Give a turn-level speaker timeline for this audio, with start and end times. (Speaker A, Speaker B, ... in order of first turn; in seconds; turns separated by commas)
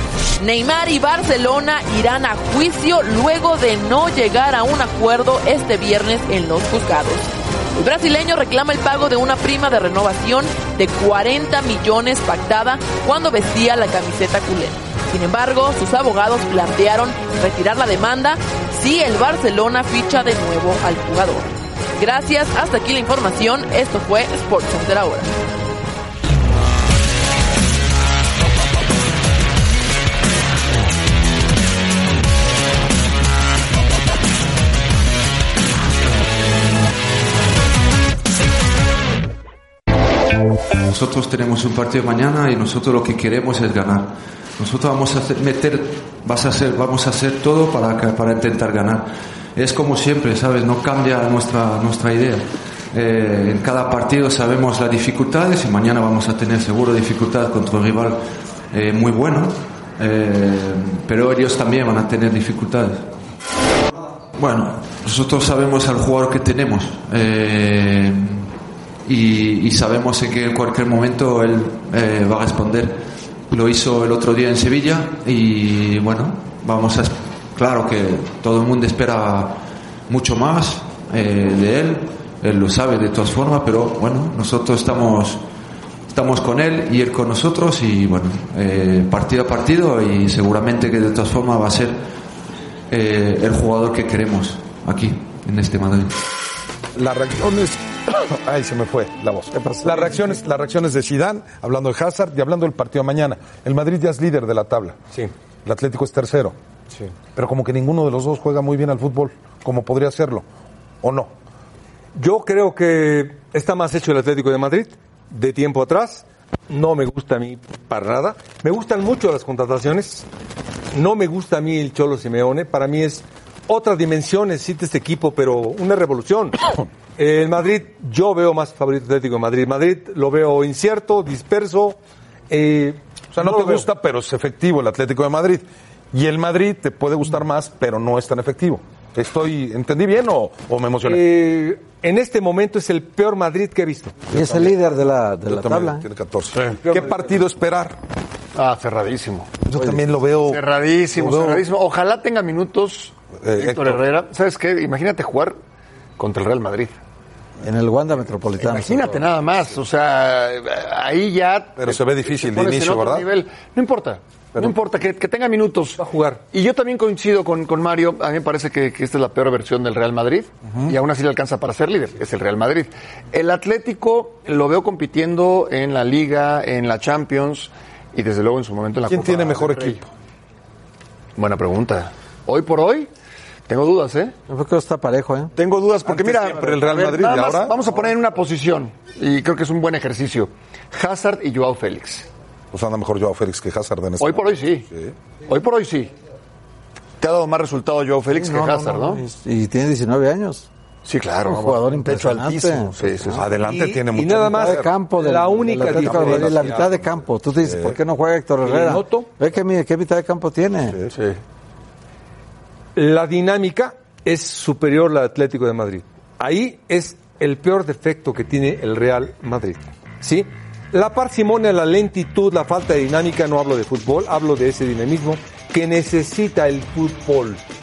Speaker A: 0.4-25.3, Speaker B: 40.8-63.1, Speaker B: 64.3-68.5, Speaker B: 69.0-85.4, Speaker B: 86.1-92.0, Speaker B: 92.9-96.2, Speaker C: 97.0-105.0, Speaker D: 99.5-100.2, Speaker C: 105.7-106.6, Speaker C: 107.4-110.5, Speaker C: 111.0-111.3, Speaker E: 112.2-120.3, Speaker E: 120.9-126.6, Speaker E: 127.2-132.0, Speaker E: 132.5-133.9, Speaker C: 133.3-141.3, Speaker E: 141.1-144.2, Speaker D: 144.3-146.1, Speaker C: 144.3-144.8, Speaker C: 145.5-148.0, Speaker E: 146.6-147.3, Speaker F: 148.6-149.5, Speaker C: 149.7-151.7, Speaker D: 149.8-150.0, Speaker F: 150.4-155.6, Speaker C: 153.4-154.0, Speaker F: 156.2-157.0, Speaker D: 157.6-159.2, Speaker F: 158.6-180.0, Speaker C: 161.8-163.3, Speaker E: 166.0-166.4, Speaker C: 179.1-180.1, Speaker F: 181.4-183.1, Speaker F: 183.7-184.3, Speaker D: 184.5-185.5, Speaker F: 185.6-192.3, Speaker C: 186.1-187.8, Speaker C: 192.7-195.1, Speaker F: 194.2-194.9, Speaker F: 195.5-196.1, Speaker F: 197.2-199.2, Speaker D: 198.3-200.7, Speaker F: 201.1-203.6, Speaker D: 201.5-203.4, Speaker C: 203.3-204.9, Speaker E: 203.6-206.8, Speaker D: 204.5-211.0, Speaker C: 205.8-208.0, Speaker E: 208.6-209.3, Speaker E: 213.0-227.6